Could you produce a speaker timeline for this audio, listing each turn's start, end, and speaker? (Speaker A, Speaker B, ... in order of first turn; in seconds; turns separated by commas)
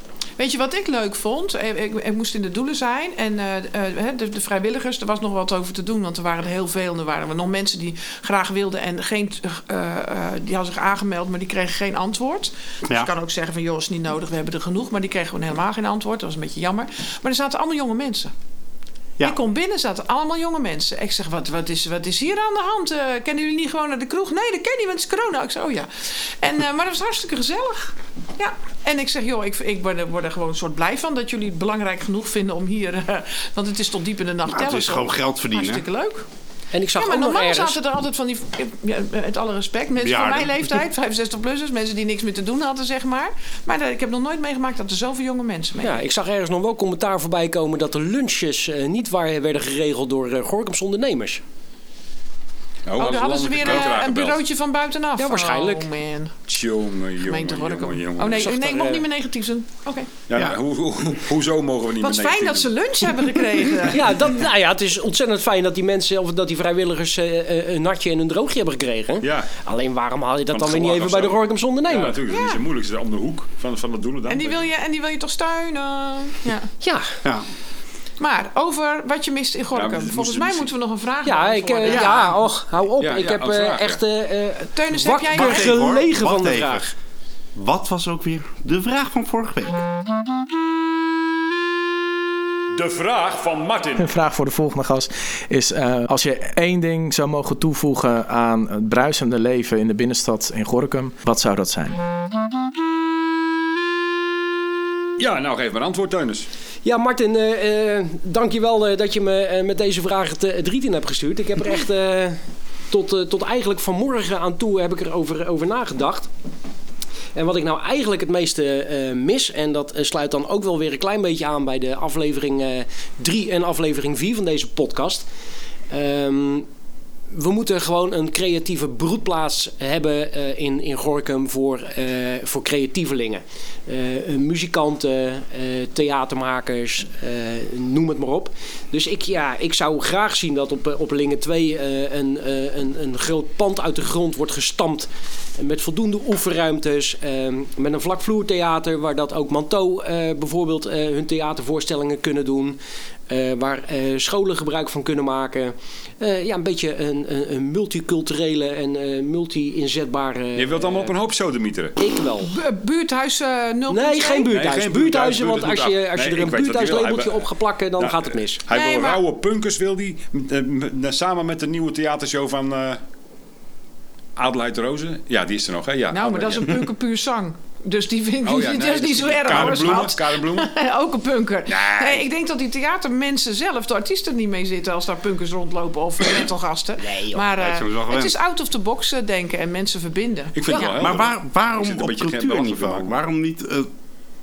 Speaker A: 0.4-18.3, Speaker A: 19.2-36.2, Speaker B: 34.5-35.8, Speaker C: 36.7-37.8, Speaker A: 37.0-46.0, Speaker B: 40.0-40.6, Speaker C: 45.8-51.4, Speaker D: 52.9-54.4, Speaker A: 53.0-56.3, Speaker C: 55.1-55.9, Speaker D: 56.5-58.6, Speaker A: 57.3-60.1, Speaker C: 58.3-59.1, Speaker D: 60.3-63.1, Speaker A: 62.0-64.2, Speaker C: 63.9-72.2, Speaker D: 69.2-69.5, Speaker D: 70.5-74.6, Speaker A: 72.3-72.6, Speaker A: 74.3-76.7, Speaker C: 76.8-77.1, Speaker A: 78.2-82.1, Speaker D: 79.7-80.7, Speaker C: 81.2-86.9, Speaker B: 81.8-82.2, Speaker D: 83.0-84.0, Speaker A: 84.7-85.8, Speaker B: 85.3-86.8, Speaker B: 87.5-89.8, Speaker D: 92.7-94.1, Speaker E: 94.0-102.0, Speaker D: 105.2-106.5, Speaker C: 106.8-116.3, Speaker C: 117.3-125.2, Speaker C: 125.9-126.7, Speaker C: 127.3-152.8, Speaker C: 153.3-161.1, Speaker D: 160.6-161.9, Speaker C: 162.0-162.5, Speaker A: 162.4-164.5, Speaker C: 163.9-168.6, Speaker D: 164.5-167.4, Speaker D: 168.0-173.0, Speaker A: 168.7-169.2, Speaker D: 174.4-176.9, Speaker A: 176.1-190.6, Speaker D: 178.4-180.7, Speaker D: 181.7-182.2, Speaker C: 187.0-187.4, Speaker B: 187.5-188.3, Speaker D: 190.5-193.2, Speaker B: 191.0-193.9